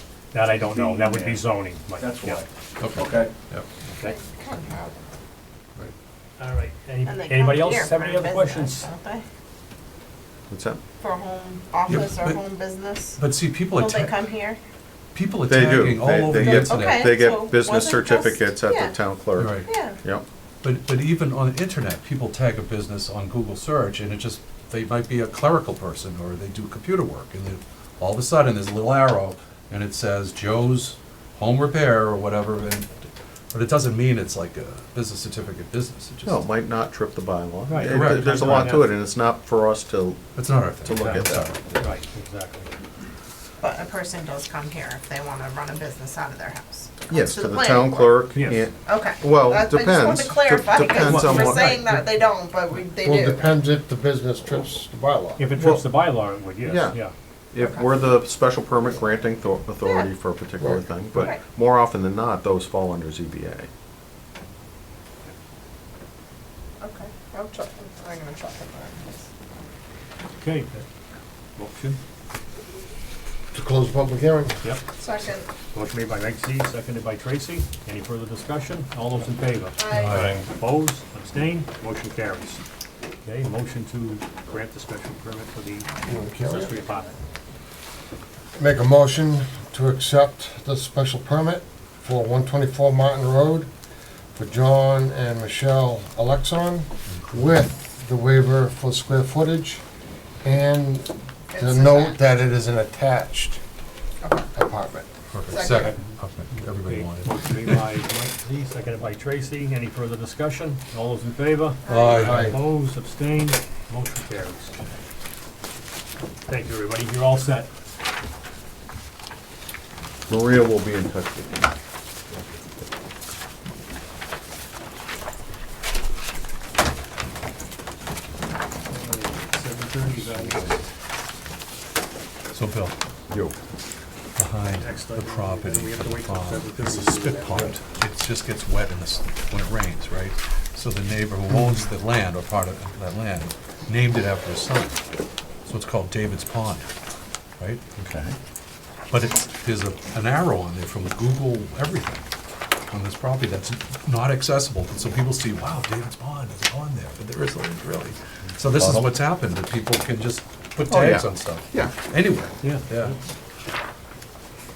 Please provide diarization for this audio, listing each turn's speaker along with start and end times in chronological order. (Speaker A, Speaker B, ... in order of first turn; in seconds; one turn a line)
Speaker A: 0.3-2.5
Speaker B: 0.7-1.1
Speaker C: 0.8-1.3
Speaker C: 2.0-2.4
Speaker B: 2.8-3.7
Speaker C: 3.0-3.3
Speaker A: 3.9-4.1
Speaker D: 4.0-5.0
Speaker A: 6.4-8.9
Speaker D: 7.0-9.2
Speaker C: 10.5-10.8
Speaker D: 11.0-14.6
Speaker B: 11.9-12.4
Speaker B: 13.2-14.3
Speaker B: 15.1-17.1
Speaker C: 15.4-20.2
Speaker D: 16.5-19.0
Speaker B: 19.4-19.7
Speaker D: 19.6-20.0
Speaker B: 20.6-36.5
Speaker C: 36.2-40.2
Speaker A: 37.7-38.9
Speaker B: 37.8-38.9
Speaker B: 40.3-41.9
Speaker C: 40.8-41.5
Speaker A: 41.0-41.2
Speaker A: 41.8-42.7
Speaker D: 43.6-53.5
Speaker C: 47.1-51.7
Speaker A: 48.3-48.6
Speaker A: 50.9-52.0
Speaker E: 53.0-55.5
Speaker A: 55.4-57.1
Speaker C: 55.5-56.0
Speaker C: 56.6-57.0
Speaker C: 57.5-63.7
Speaker D: 57.6-57.9
Speaker D: 59.8-60.1
Speaker D: 66.8-69.2
Speaker A: 70.4-70.8
Speaker A: 71.6-72.0
Speaker E: 73.5-74.6
Speaker D: 75.0-75.5
Speaker A: 75.7-82.6
Speaker D: 79.8-80.2
Speaker B: 79.9-80.4
Speaker A: 83.2-87.1
Speaker E: 86.0-86.7
Speaker E: 88.5-93.7
Speaker E: 94.3-99.8
Speaker B: 97.2-97.5
Speaker E: 100.4-103.6
Speaker D: 101.5-102.2
Speaker E: 104.5-105.1
Speaker B: 105.3-107.8
Speaker D: 105.5-106.0
Speaker A: 105.8-106.1
Speaker A: 106.6-114.8
Speaker D: 111.8-112.3
Speaker B: 111.9-112.6
Speaker E: 112.2-112.6
Speaker A: 116.5-117.7
Speaker C: 120.3-121.7
Speaker A: 128.9-130.8
Speaker C: 130.4-130.7
Speaker B: 132.5-132.9
Speaker C: 133.3-133.6
Speaker B: 134.4-145.0
Speaker A: 134.8-137.8
Speaker B: 145.6-146.9
Speaker C: 148.0-148.3
Speaker B: 149.1-152.2
Speaker B: 152.9-163.1
Speaker C: 158.7-159.1
Speaker C: 160.9-161.9
Speaker A: 162.6-163.1